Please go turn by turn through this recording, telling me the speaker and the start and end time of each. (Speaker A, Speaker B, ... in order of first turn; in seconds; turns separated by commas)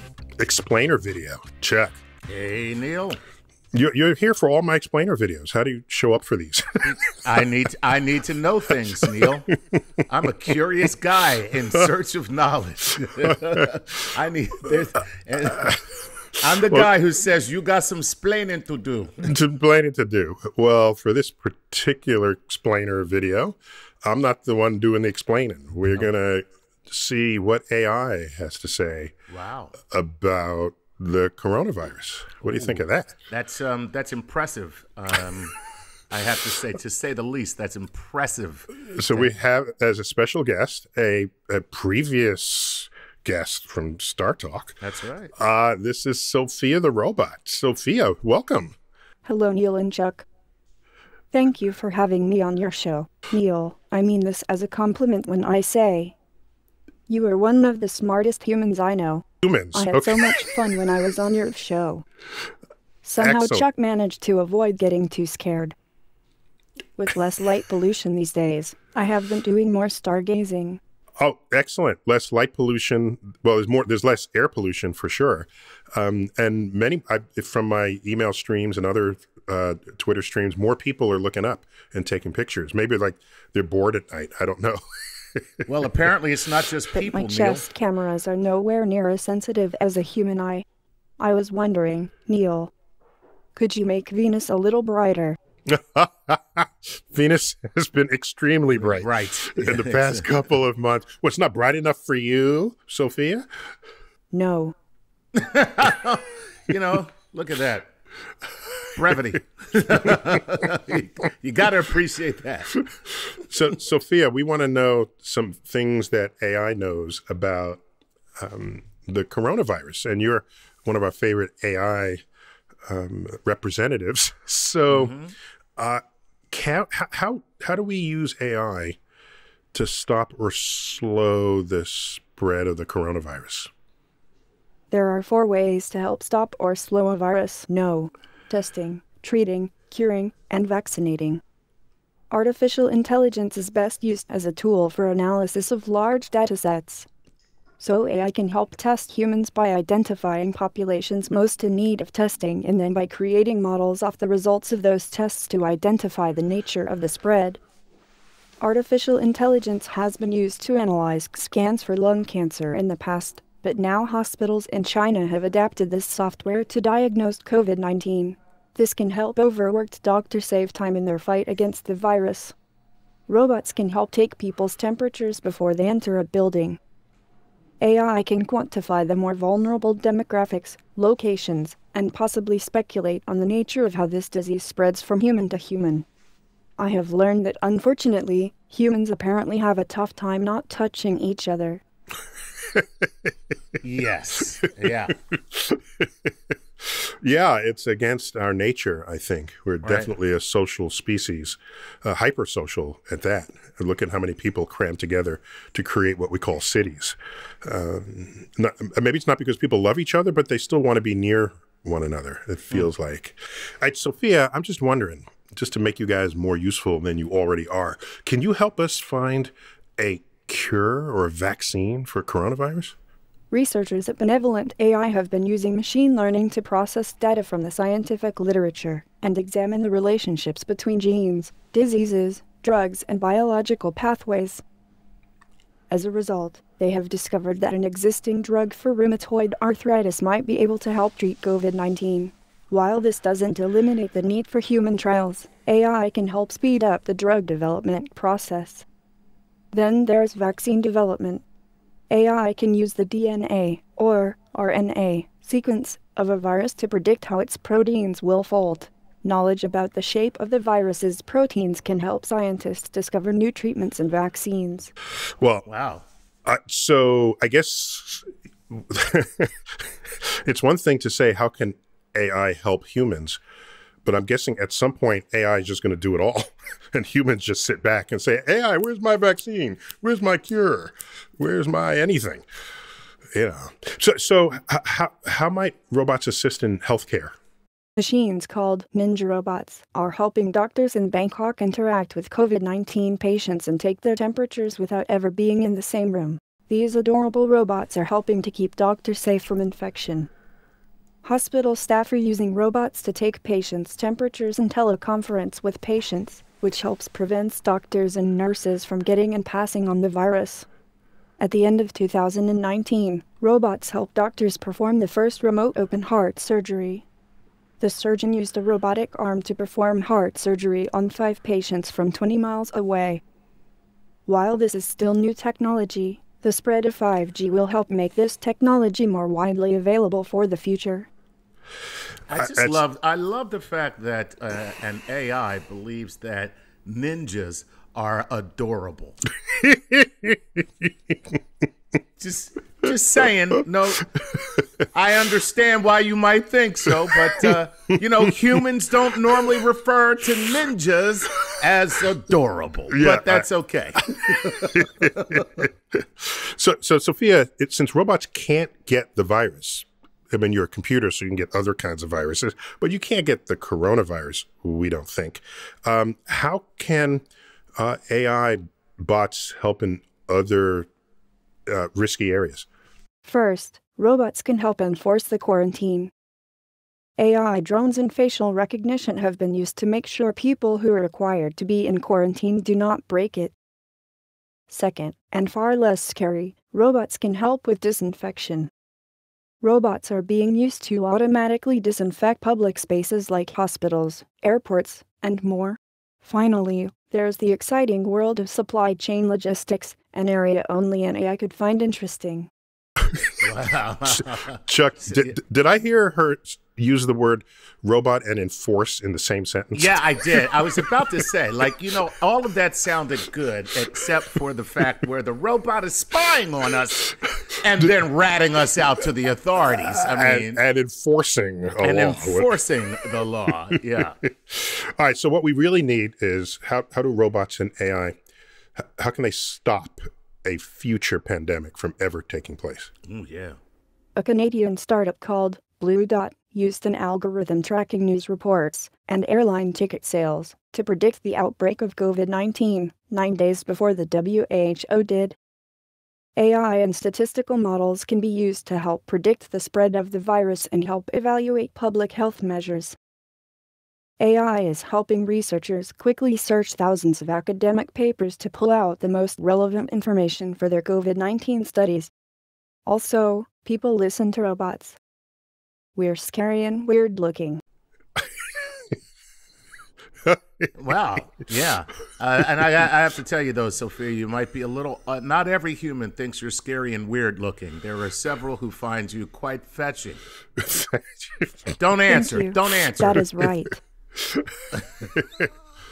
Speaker A: 0.4-2.0, Speaker B: 2.3-3.2, Speaker A: 3.7-7.3, Speaker B: 7.1-9.6, Speaker A: 9.1-9.8, Speaker B: 10.1-15.8, Speaker B: 16.4-19.3, Speaker A: 19.2-29.1, Speaker B: 29.3-29.8, Speaker A: 29.9-33.2, Speaker B: 33.3-35.6, Speaker B: 36.1-39.3, Speaker A: 38.9-44.8, Speaker B: 44.8-45.3, Speaker A: 45.4-48.7, Speaker C: 49.2-50.3, Speaker C: 51.3-56.1, Speaker C: 57.1-62.0, Speaker A: 59.4-60.5, Speaker C: 63.0-65.8, Speaker A: 63.2-63.7, Speaker C: 67.0-70.8, Speaker A: 71.2-84.8, Speaker A: 85.3-85.7, Speaker B: 85.7-87.7, Speaker C: 86.9-90.7, Speaker C: 91.2-92.7, Speaker C: 93.5-95.4, Speaker A: 95.7-103.5, Speaker B: 98.8-100.3, Speaker C: 104.3-104.8, Speaker B: 105.3-107.9, Speaker B: 108.9-112.8, Speaker A: 113.3-117.8, Speaker A: 118.4-122.2, Speaker A: 122.9-125.2, Speaker B: 124.9-125.3, Speaker A: 125.8-129.0, Speaker A: 129.7-133.7, Speaker C: 134.9-141.4, Speaker C: 142.3-147.1, Speaker C: 147.8-157.6, Speaker C: 158.6-172.6, Speaker C: 173.3-176.8, Speaker C: 177.8-186.1, Speaker C: 186.8-191.8, Speaker B: 193.8-195.2, Speaker A: 195.3-196.3, Speaker A: 196.8-222.9, Speaker B: 199.8-200.1, Speaker C: 223.5-234.6, Speaker C: 235.9-248.9, Speaker C: 249.7-251.4, Speaker C: 252.1-264.9, Speaker B: 265.7-266.0, Speaker A: 266.4-273.4, Speaker A: 274.1-282.4, Speaker A: 283.4-287.4, Speaker C: 288.0-300.3, Speaker C: 301.2-310.7, Speaker C: 311.4-317.1, Speaker C: 317.8-323.2, Speaker C: 324.3-331.1, Speaker B: 332.3-339.2, Speaker A: 332.3-332.8, Speaker A: 339.5-340.6, Speaker B: 342.2-344.1, Speaker A: 344.3-344.6, Speaker B: 344.9-355.4, Speaker A: 352.9-367.2, Speaker A: 367.8-370.9, Speaker A: 371.7-372.7, Speaker C: 373.2-376.1, Speaker C: 377.2-383.5, Speaker C: 384.7-388.7, Speaker C: 389.6-402.5, Speaker B: 403.4-404.6, Speaker A: 404.6-410.5, Speaker B: 409.7-420.6, Speaker A: 419.8-422.5, Speaker B: 421.8-424.2, Speaker A: 424.2-428.1, Speaker A: 428.8-432.9, Speaker B: 433.1-433.6, Speaker C: 434.2-445.4, Speaker C: 446.4-453.0, Speaker C: 454.2-462.1, Speaker C: 462.9-465.0, Speaker C: 465.9-467.6, Speaker A: 470.3-470.7, Speaker B: 470.8-480.2, Speaker A: 480.6-481.5, Speaker B: 481.7-483.2, Speaker C: 482.1-483.8, Speaker A: 484.2-484.5, Speaker A: 485.0-485.5